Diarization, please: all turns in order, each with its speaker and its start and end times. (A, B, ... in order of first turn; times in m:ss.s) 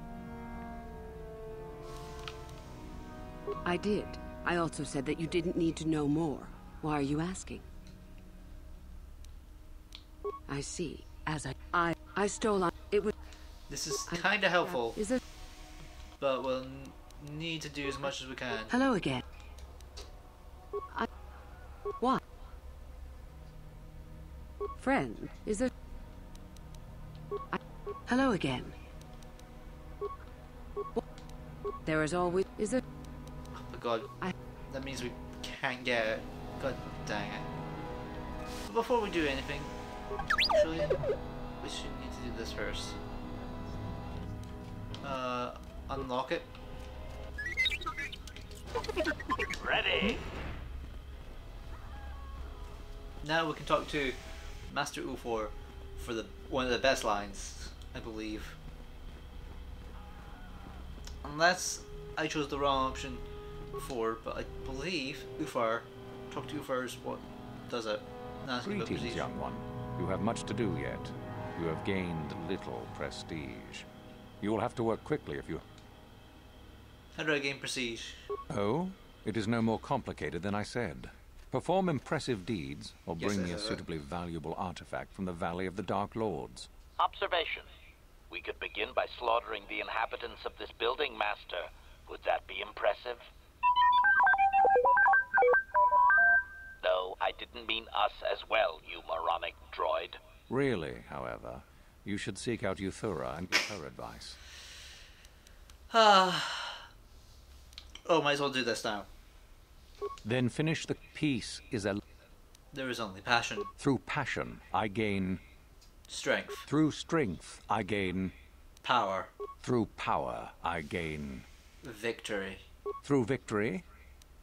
0:03.6-0:07.6 A
0:10.5-0:13.1 A
0:13.7-0:15.0 B
0:14.1-0:15.2 A
0:16.2-0:18.7 B
0:18.7-0:19.2 A
0:24.8-0:25.7 A
0:27.5-0:28.7 A
0:31.8-0:32.8 A
0:33.6-0:34.1 B
0:34.7-0:37.5 B
0:38.6-0:39.8 B
0:40.5-0:41.0 B
0:41.6-0:43.0 B
0:45.0-0:46.5 B
0:53.2-0:58.6 B
1:01.2-1:03.2 B
1:03.8-1:09.3 B
1:08.6-1:13.9 C
1:14.4-1:15.6 C
1:17.2-1:18.2 B
1:18.5-1:26.7 C
1:23.2-1:23.8 B
1:27.0-1:27.7 D
1:28.3-1:33.2 D
1:36.8-1:40.2 D
1:40.5-1:44.4 C
1:45.9-1:46.8 B
1:48.0-1:49.1 B
1:50.2-1:52.0 C
1:52.7-1:53.7 B
1:53.8-1:55.4 C
1:56.1-1:56.7 B
1:56.7-1:58.3 C
1:58.8-1:59.3 B
1:59.6-2:01.4 C
2:01.8-2:02.6 B
2:03.0-2:03.8 C